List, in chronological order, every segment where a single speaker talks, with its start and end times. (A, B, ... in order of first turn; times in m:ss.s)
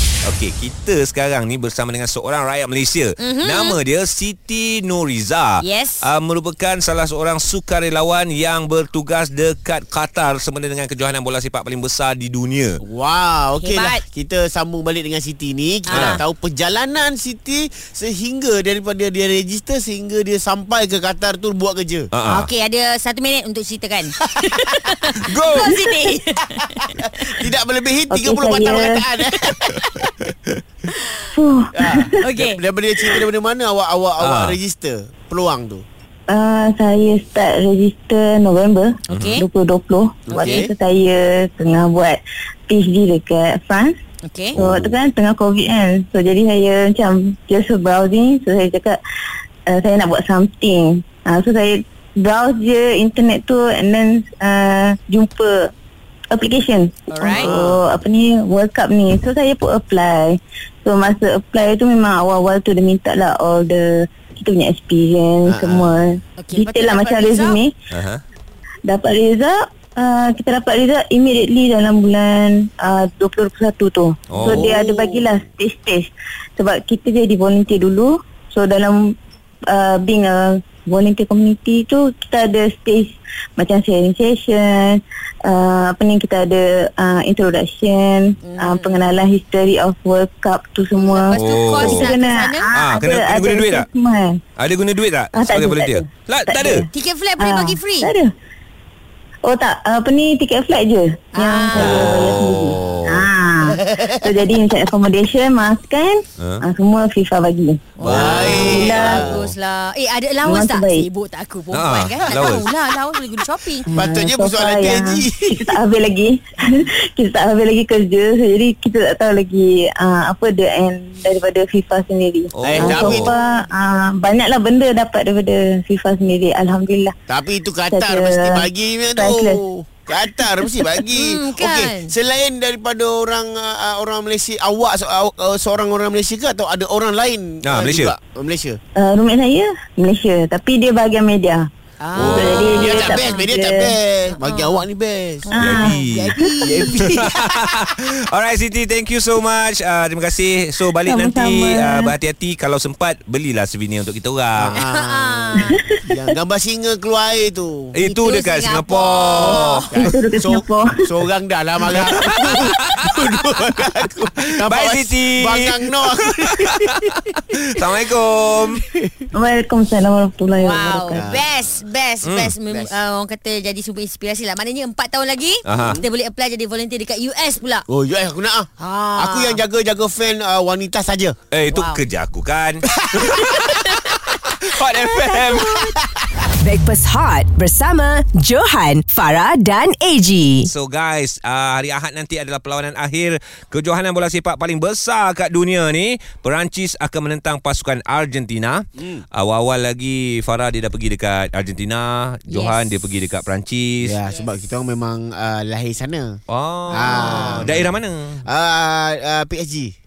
0:00.2-0:12.8 A
0:03.2-0:03.8 B
0:05.6-0:06.1 B
0:12.8-0:22.1 C
0:13.6-0:14.0 B
0:15.9-0:16.2 B
0:15.9-0:16.2 A
0:22.1-0:22.5 A
0:22.3-0:27.4 B
0:25.2-0:25.8 A
0:27.0-0:30.0 C
0:28.1-0:29.1 D
0:31.3-0:32.2 D
0:31.8-0:35.8 C
0:32.2-0:32.6 B
0:34.2-0:34.6 A
0:36.3-0:44.0 D
0:39.1-0:39.5 B
0:40.3-0:40.7 C
0:40.3-0:40.7 B
0:44.2-0:44.6 B
0:44.6-0:44.9 C
0:44.6-0:49.0 D
0:44.6-0:44.9 A
0:49.7-0:55.7 D
0:56.3-1:07.7 D
0:57.1-0:57.6 B
0:57.3-0:57.8 C
1:05.5-1:06.0 C
1:06.4-1:07.6 B
1:07.9-1:08.2 A
1:08.9-1:19.1 D
1:14.3-1:14.7 A
1:14.5-1:15.2 B
1:19.7-1:34.4 D
1:28.4-1:29.1 B
1:30.9-1:32.7 B
1:31.3-1:32.1 A
1:32.7-1:33.9 A
1:34.6-1:36.9 A
1:35.3-1:36.9 D
1:36.9-1:38.1 B
1:37.4-1:38.3 D
1:39.4-1:49.3 D
1:41.3-1:42.1 B
1:41.8-1:42.4 C
1:41.8-1:43.3 A
1:43.6-1:44.5 C
1:48.0-1:53.9 B
1:48.0-1:49.5 C
1:48.0-1:49.3 A
1:50.4-1:51.1 D
1:51.7-1:52.7 A
1:53.9-2:07.1 D
1:53.9-1:55.8 C
2:02.5-2:03.3 A
2:02.6-2:03.4 C
2:07.3-2:18.8 C
2:07.9-2:09.6 D
2:11.1-2:12.1 B
2:17.6-2:18.2 A
2:19.0-2:21.7 D
2:22.0-2:23.4 B
2:22.2-2:22.8 A
2:22.2-2:27.4 C
2:22.2-2:24.0 D
2:24.3-2:24.8 B
2:25.5-2:26.0 D
2:25.6-2:34.8 A
2:25.8-2:27.1 B
2:31.0-2:32.1 D
2:34.6-2:37.9 C
2:34.8-2:35.8 B
2:35.6-2:36.0 D
2:37.9-2:40.1 A
2:38.0-2:39.9 B
2:39.9-2:47.2 C
2:40.0-2:41.1 D
2:42.0-2:43.6 A
2:44.5-2:48.8 A
2:49.3-2:51.3 D
2:50.6-2:57.9 B
2:51.2-2:51.5 C
2:52.2-2:52.5 A
2:55.7-2:56.0 A
2:55.8-2:56.0 C
2:57.9-3:01.4 C
2:58.8-2:59.6 B
3:01.5-3:05.9 A
3:01.7-3:02.0 B
3:03.0-3:03.8 C
3:05.4-3:05.7 B
3:06.0-3:06.5 C
3:06.6-3:10.7 E
3:10.6-3:24.2 A
3:19.0-3:19.2 C
3:22.5-3:22.9 B
3:24.0-3:26.4 C
3:26.5-3:28.5 A
3:26.9-3:27.7 B
3:26.9-3:27.9 C
3:28.5-3:29.9 C